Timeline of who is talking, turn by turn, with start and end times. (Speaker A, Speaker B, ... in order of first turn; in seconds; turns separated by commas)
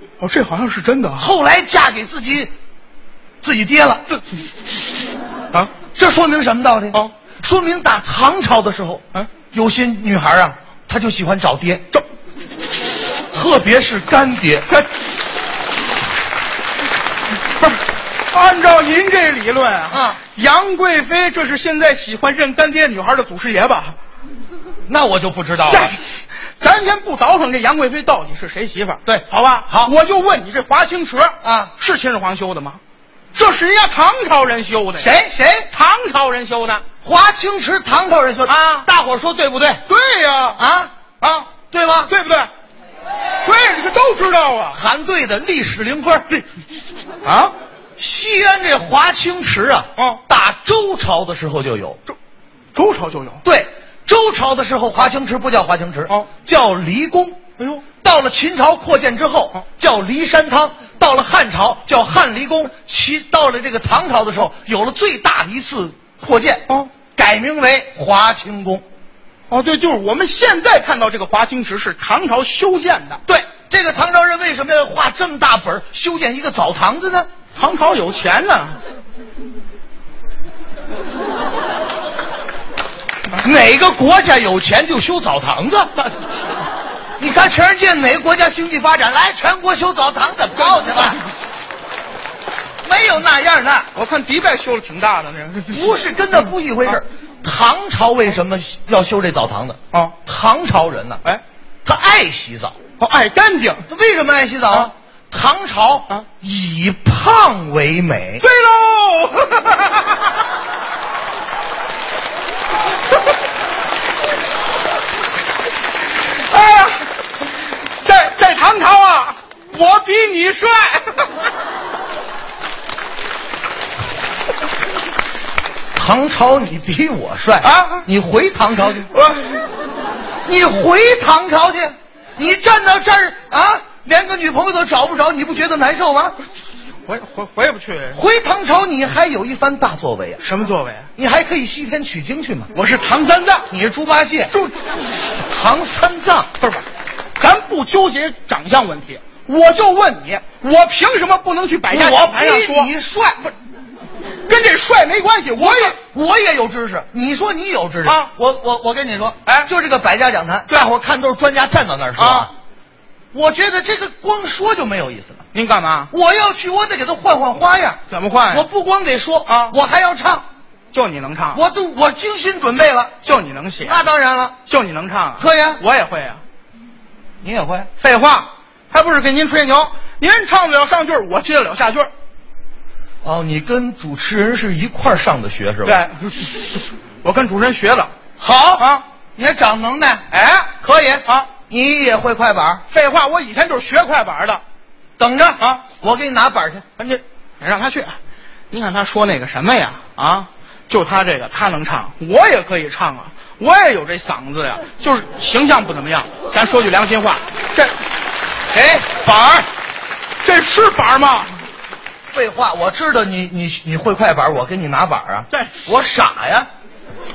Speaker A: 0.2-1.3, Speaker B: 1.1-2.5, Speaker B: 3.4-4.0, Speaker B: 6.0-11.9, Speaker B: 13.3-14.7, Speaker A: 17.6-23.9, Speaker B: 19.9-20.2, Speaker B: 24.9-26.0, Speaker A: 25.7-32.8, Speaker B: 29.1-29.9, Speaker B: 31.4-31.7, Speaker A: 33.3-35.1, Speaker B: 35.0-35.7, Speaker A: 35.7-36.8, Speaker B: 37.0-39.8, Speaker A: 38.5-38.9, Speaker A: 39.9-40.6, Speaker B: 40.5-40.9, Speaker A: 41.2-41.5, Speaker B: 41.7-42.1, Speaker A: 42.1-42.5, Speaker A: 43.4-44.8, Speaker B: 44.7-46.3, Speaker A: 47.2-47.5, Speaker B: 48.0-52.0, Speaker A: 50.0-50.2, Speaker A: 52.7-53.4, Speaker B: 53.4-57.4, Speaker A: 57.6-57.8, Speaker B: 58.0-68.8, Speaker A: 69.5-73.2, Speaker B: 73.3-77.3, Speaker A: 77.5-78.8, Speaker B: 83.4-85.9, Speaker B: 87.2-91.2, Speaker B: 92.8-93.9, Speaker A: 93.9-96.0, Speaker B: 95.7-101.2, Speaker B: 101.8-102.8, Speaker A: 103.0-103.8, Speaker B: 103.9-108.4, Speaker A: 108.4-110.3, Speaker A: 116.2-117.1, Speaker A: 118.0-121.3, Speaker B: 125.9-129.1, Speaker A: 127.6-128.1, Speaker A: 129.1-129.6, Speaker B: 130.4-136.3, Speaker A: 137.1-138.2, Speaker B: 138.1-140.4, Speaker A: 140.4-141.1, Speaker B: 141.2-142.7, Speaker A: 142.7-143.7, Speaker B: 143.7-144.5, Speaker B: 145.4-146.5, Speaker A: 146.6-146.8, Speaker A: 147.4-152.9, Speaker B: 151.9-153.5, Speaker A: 154.4-156.0, Speaker B: 155.5-162.5, Speaker A: 158.0-158.3, Speaker A: 159.4-159.7, Speaker A: 162.2-162.5, Speaker B: 163.3-165.4, Speaker A: 165.5-166.1, Speaker B: 166.1-168.0, Speaker A: 168.1-168.7, Speaker B: 168.5-170.4, Speaker A: 169.4-169.7, Speaker A: 170.9-171.6, Speaker B: 171.5-173.1, Speaker A: 173.2-174.0, Speaker B: 173.8-174.6, Speaker A: 174.7-176.4, Speaker B: 175.4-175.8, Speaker B: 177.4-177.9, Speaker A: 177.9-182.1, Speaker B: 183.2-186.0, Speaker A: 185.8-188.1, Speaker B: 188.4-190.3, Speaker A: 188.8-189.0, Speaker A: 190.3-190.7, Speaker B: 190.8-192.8, Speaker A: 191.2-191.5, Speaker A: 192.9-194.6, Speaker B: 195.2-196.8, Speaker A: 197.0-198.2, Speaker A: 198.7-207.9, Speaker A: 208.7-209.7, Speaker A: 210.4-211.6, Speaker B: 212.3-216.7